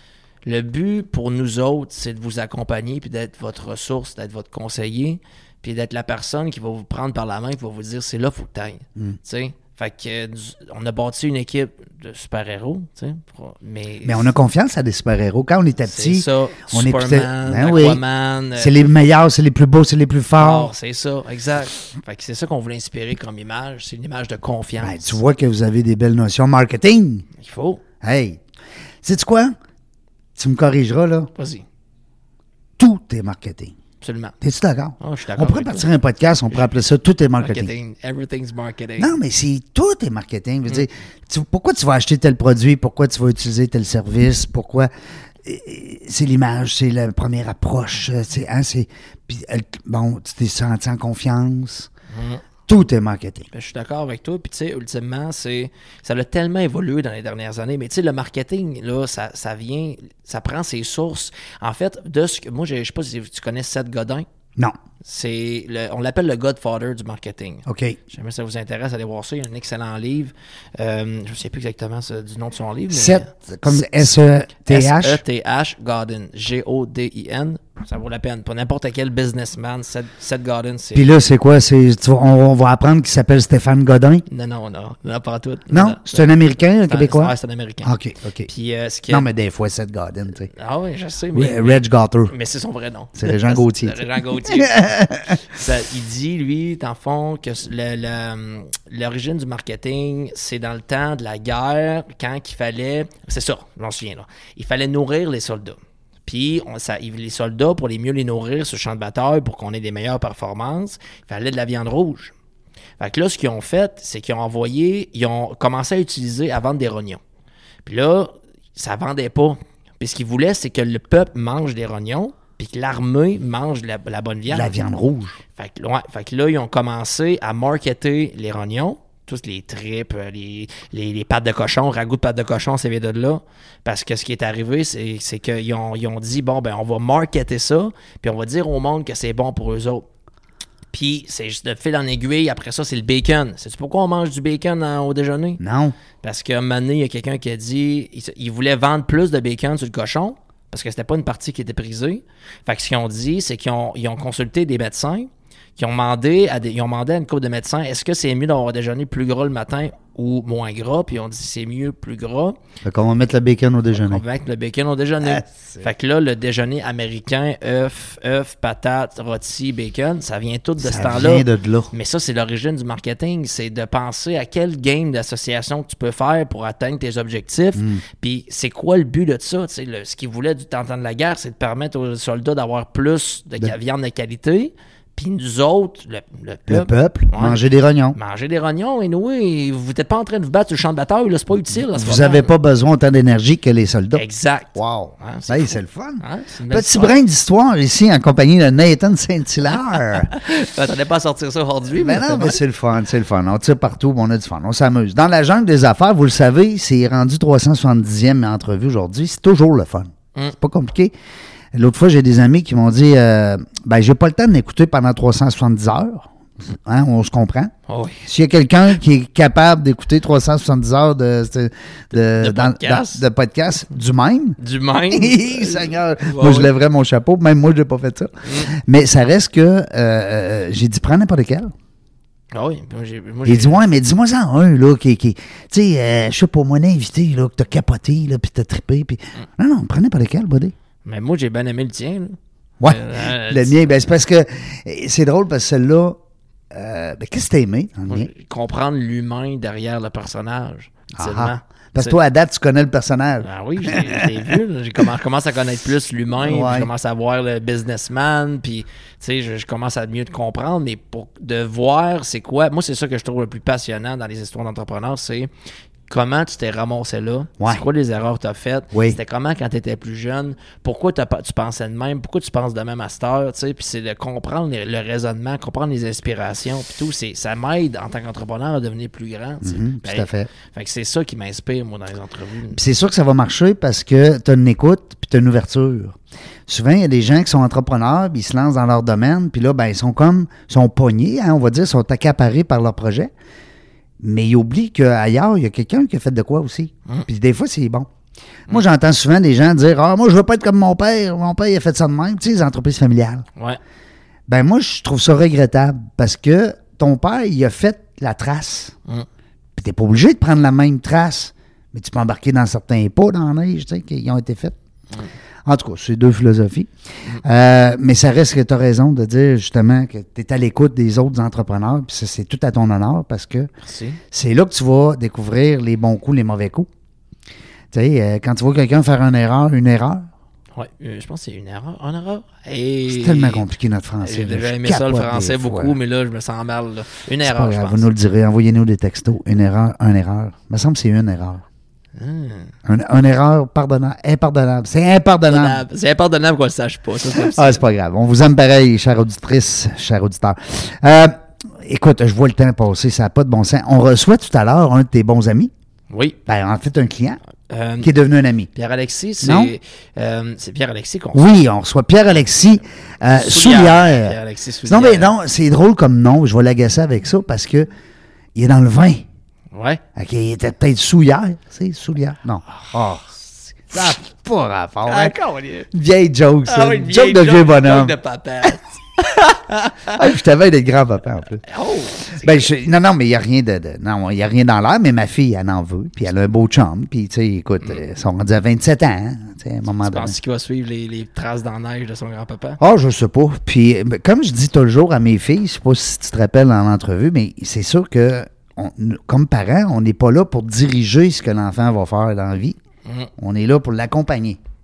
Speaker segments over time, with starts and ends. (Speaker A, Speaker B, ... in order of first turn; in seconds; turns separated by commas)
Speaker A: 0.5-14.3, Speaker B: 14.1-18.0, Speaker A: 15.9-18.7, Speaker B: 18.6-20.7, Speaker A: 20.4-25.2, Speaker B: 24.8-27.2, Speaker A: 27.4-27.8, Speaker B: 28.0-28.4, Speaker B: 29.0-29.6, Speaker B: 30.4-31.3, Speaker A: 31.4-31.6, Speaker B: 32.8-33.8, Speaker A: 34.0-34.3, Speaker B: 34.4-37.7, Speaker A: 35.0-35.9, Speaker A: 37.4-39.1, Speaker B: 39.0-44.9, Speaker B: 45.4-51.9, Speaker A: 52.1-52.4, Speaker B: 52.7-53.5, Speaker A: 53.5-64.3, Speaker A: 65.0-74.0, Speaker B: 67.7-68.0, Speaker B: 72.9-75.2, Speaker A: 74.7-81.1, Speaker B: 81.0-84.2, Speaker A: 84.3-86.3, Speaker B: 85.7-87.3, Speaker A: 86.9-87.9, Speaker B: 87.8-88.5, Speaker A: 88.5-89.3, Speaker B: 89.1-90.5, Speaker A: 90.5-112.3, Speaker B: 91.3-92.3, Speaker B: 93.2-95.4, Speaker A: 113.0-117.2, Speaker A: 117.8-124.7, Speaker B: 124.5-125.4, Speaker A: 125.5-140.1, Speaker A: 140.9-145.6, Speaker B: 145.6-145.9, Speaker A: 146.2-162.6, Speaker B: 162.8-164.2, Speaker A: 163.9-187.6, Speaker B: 165.2-165.8, Speaker B: 170.8-171.9, Speaker B: 177.8-178.0, Speaker B: 186.7-188.2, Speaker A: 188.1-192.5, Speaker B: 191.7-194.2, Speaker A: 194.1-197.2, Speaker B: 194.8-200.3, Speaker A: 200.1-202.6, Speaker B: 201.9-211.1, Speaker B: 211.7-217.7, Speaker A: 217.9-218.2, Speaker B: 218.2-224.6, Speaker A: 222.2-223.2, Speaker A: 224.6-226.7, Speaker B: 225.1-231.7, Speaker A: 228.4-228.7, Speaker A: 232.5-233.8, Speaker B: 233.4-240.7, Speaker A: 241.1-243.8, Speaker B: 242.8-246.2, Speaker B: 246.7-248.3, Speaker A: 248.1-252.2, Speaker B: 251.2-254.5, Speaker A: 253.4-265.5, Speaker B: 256.4-256.9, Speaker A: 266.1-282.8, Speaker B: 268.9-269.2, Speaker B: 279.6-280.5, Speaker B: 282.8-286.2, Speaker B: 286.7-293.3, Speaker B: 294.2-298.1, Speaker B: 298.7-303.4, Speaker B: 304.5-308.9, Speaker B: 309.8-314.8, Speaker B: 315.7-316.9, Speaker B: 317.4-323.7, Speaker A: 323.8-324.2, Speaker B: 324.3-326.9, Speaker B: 327.9-330.3, Speaker A: 330.8-333.7, Speaker B: 333.1-336.0, Speaker A: 334.2-338.1, Speaker B: 337.4-341.6, Speaker A: 342.2-342.7, Speaker B: 342.9-345.8, Speaker A: 345.4-347.8, Speaker B: 347.3-355.7, Speaker A: 356.1-356.4, Speaker B: 356.5-357.4, Speaker A: 357.7-358.1, Speaker B: 358.0-358.7, Speaker A: 358.7-361.6, Speaker B: 359.4-359.7, Speaker B: 361.3-367.9, Speaker A: 363.3-365.3, Speaker B: 368.6-369.2, Speaker A: 369.7-370.0, Speaker B: 370.2-373.3, Speaker B: 373.9-375.4, Speaker A: 375.1-375.9, Speaker B: 375.9-378.2, Speaker A: 376.7-380.3, Speaker B: 380.1-381.6, Speaker A: 381.6-382.7, Speaker B: 382.3-390.4, Speaker A: 390.0-392.8, Speaker B: 392.8-402.8, Speaker B: 403.4-404.6